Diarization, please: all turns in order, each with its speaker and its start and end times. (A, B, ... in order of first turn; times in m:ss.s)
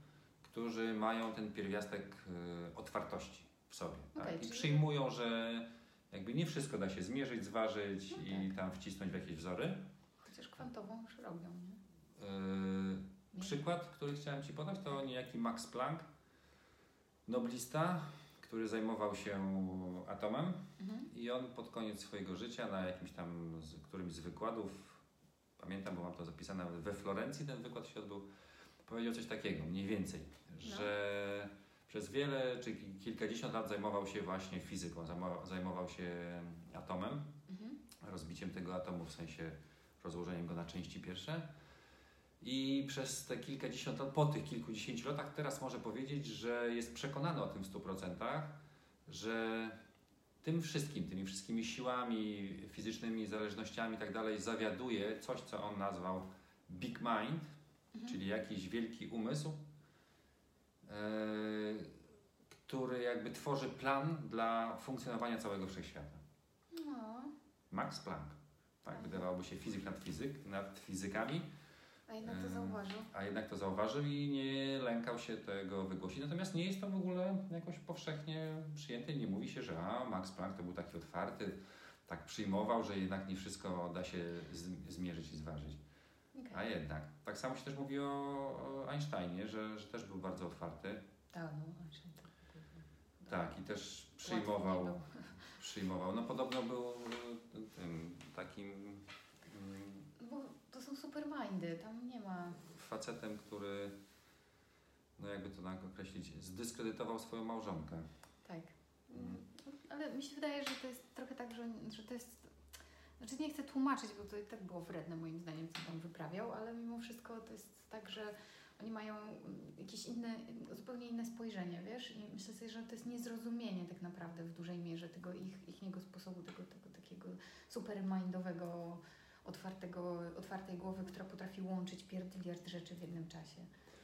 0:00.4-0:09.8 A
0:04.1-0:04.8 B
0:08.1-0:08.5 B
0:10.2-0:11.8 B
0:12.2-0:16.0 A
0:17.2-0:25.0 A
0:20.8-0:21.1 B
0:25.6-0:28.2 A
0:28.8-0:37.3 A
0:30.6-0:30.9 B
0:37.5-0:37.8 B
0:38.0-0:41.4 A
0:42.4-0:49.8 A
0:50.4-0:57.4 A
0:58.1-0:59.6 A
1:00.8-1:01.9 A
1:02.6-1:06.2 A
1:06.7-1:07.3 B
1:07.7-1:11.5 A
1:08.9-1:09.2 B
1:12.1-1:13.1 B
1:12.2-1:25.8 A
1:26.3-1:26.6 B
1:26.5-1:31.0 A
1:31.3-1:33.4 B
1:33.3-1:40.1 A
1:34.2-1:35.5 B
1:40.2-1:42.6 B
1:42.6-1:43.9 A
1:45.2-1:48.0 A
1:48.4-1:52.5 B
1:53.2-2:13.7 B